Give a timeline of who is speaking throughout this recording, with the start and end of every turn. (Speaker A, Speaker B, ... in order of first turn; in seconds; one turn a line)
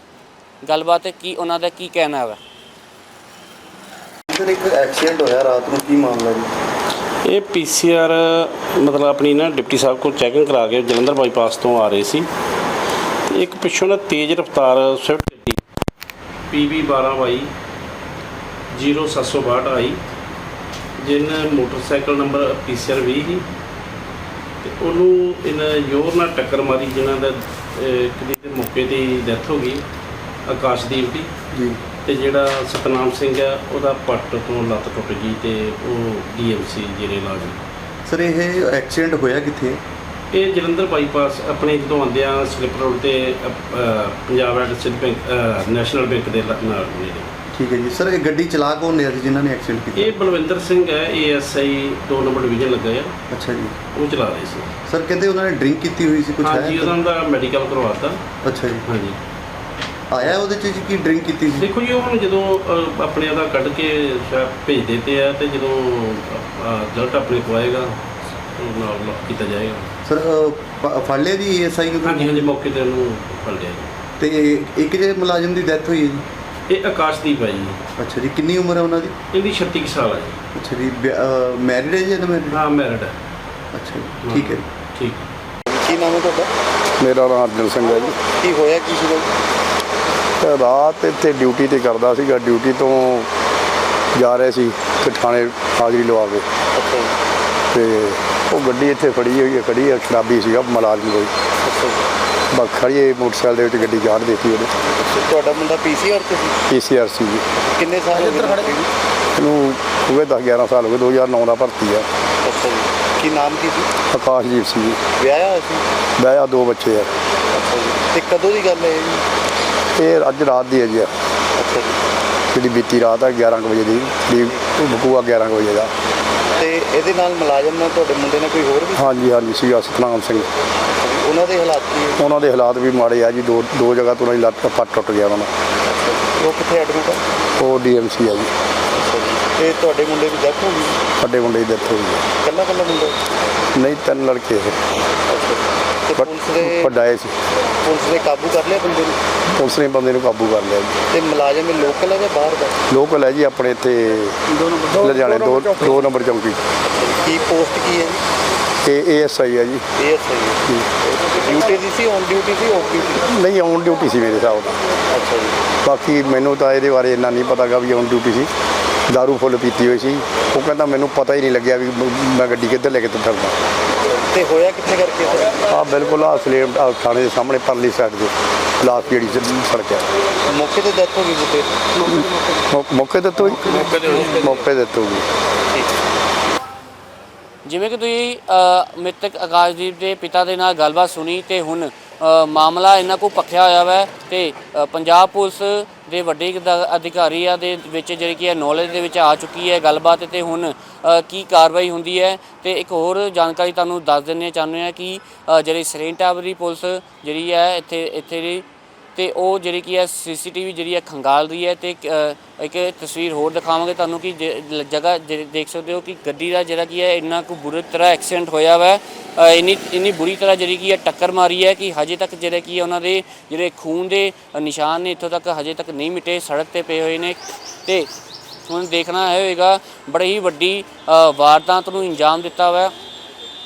Speaker A: 0.6-2.4
Speaker B: 4.3-6.5
Speaker C: 7.2-12.3
Speaker C: 13.3-15.6
Speaker C: 16.5-17.5
Speaker C: 18.7-20.0
Speaker C: 21.0-23.5
Speaker C: 24.6-29.8
Speaker C: 30.5-31.3
Speaker B: 31.5-31.8
Speaker C: 32.0-37.6
Speaker B: 38.1-39.8
Speaker C: 40.3-47.3
Speaker B: 47.5-50.1
Speaker C: 50.0-53.1
Speaker B: 53.3-53.8
Speaker C: 53.9-54.7
Speaker B: 54.9-57.0
Speaker C: 56.4-58.2
Speaker B: 58.4-58.8
Speaker C: 58.9-59.2
Speaker B: 60.1-61.7
Speaker C: 61.6-68.0
Speaker C: 68.5-69.9
Speaker B: 70.1-72.5
Speaker C: 72.0-74.0
Speaker B: 74.2-76.2
Speaker C: 76.7-77.8
Speaker B: 78.0-79.2
Speaker C: 79.3-80.4
Speaker B: 80.5-82.6
Speaker C: 82.5-83.2
Speaker B: 83.7-84.6
Speaker C: 84.2-85.3
Speaker B: 85.7-86.5
Speaker D: 87.0-88.1
Speaker B: 88.1-89.4
Speaker D: 90.4-93.3
Speaker D: 94.1-96.5
Speaker B: 96.7-97.1
Speaker D: 97.7-101.3
Speaker B: 101.6-102.1
Speaker D: 102.5-104.7
Speaker B: 104.9-106.6
Speaker D: 106.7-107.5
Speaker B: 107.6-108.9
Speaker D: 109.4-112.1
Speaker B: 112.4-113.9
Speaker D: 114.1-115.0
Speaker B: 115.2-115.8
Speaker D: 116.2-117.1
Speaker B: 117.5-119.2
Speaker D: 120.0-121.1
Speaker B: 121.6-122.0
Speaker D: 122.5-125.9
Speaker B: 126.5-129.1
Speaker D: 129.0-130.5
Speaker B: 130.9-132.2
Speaker D: 132.2-135.5
Speaker B: 135.9-137.3
Speaker D: 137.6-138.5
Speaker B: 138.9-141.0
Speaker D: 141.2-142.2
Speaker B: 142.4-143.2
Speaker D: 143.8-144.8
Speaker B: 145.3-146.9
Speaker D: 146.2-147.3
Speaker B: 147.8-149.2
Speaker D: 149.6-151.0
Speaker B: 151.1-152.8
Speaker D: 152.9-156.6
Speaker B: 156.8-158.2
Speaker D: 158.8-159.9
Speaker B: 160.0-163.2
Speaker D: 163.2-164.8
Speaker B: 165.1-165.6
Speaker D: 165.8-168.5
Speaker D: 169.1-173.6
Speaker B: 174.1-175.7
Speaker D: 175.7-180.1
Speaker B: 180.5-181.9
Speaker D: 182.0-185.3
Speaker B: 183.7-184.5
Speaker A: 187.7-208.6
Speaker A: 209.2-228.1
Speaker A: 228.7-232.9